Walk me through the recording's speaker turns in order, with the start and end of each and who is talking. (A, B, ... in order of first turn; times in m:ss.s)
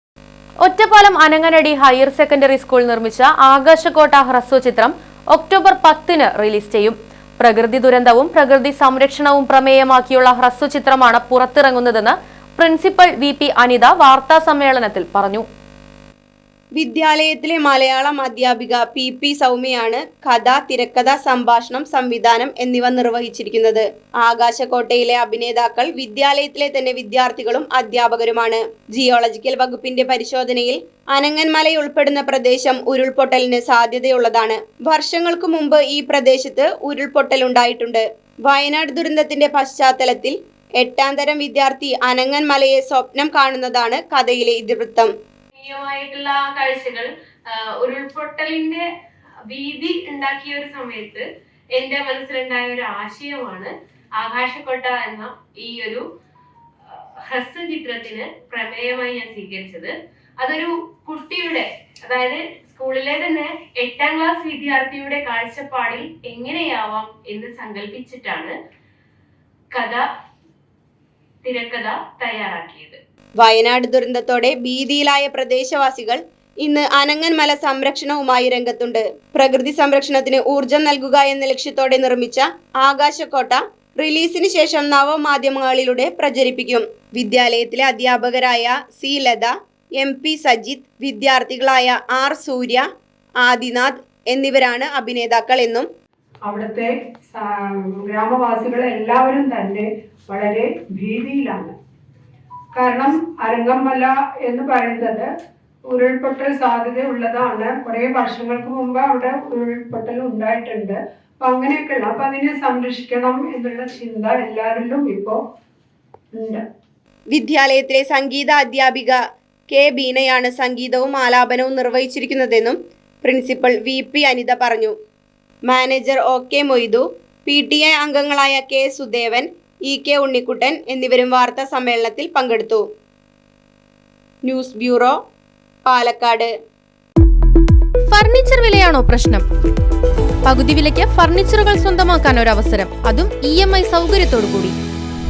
0:00.6-0:15.4 A
0:16.8-0:45.1 B
0:45.5-0:48.8 C
0:49.5-0:56.0 C
0:56.9-1:08.5 C
1:09.7-1:10.0 C
1:11.4-1:13.0 C
1:13.4-1:32.8 B
1:33.4-1:35.9 B
1:36.4-1:41.7 D
1:42.7-1:45.3 D
1:45.9-1:55.4 D
1:56.3-1:56.6 D
1:57.3-1:59.2 B
1:59.7-2:04.9 B
2:05.7-2:12.8 B
2:14.4-2:15.1 B
2:15.8-2:16.5 B
2:18.1-2:19.4 E
2:20.4-2:24.7 E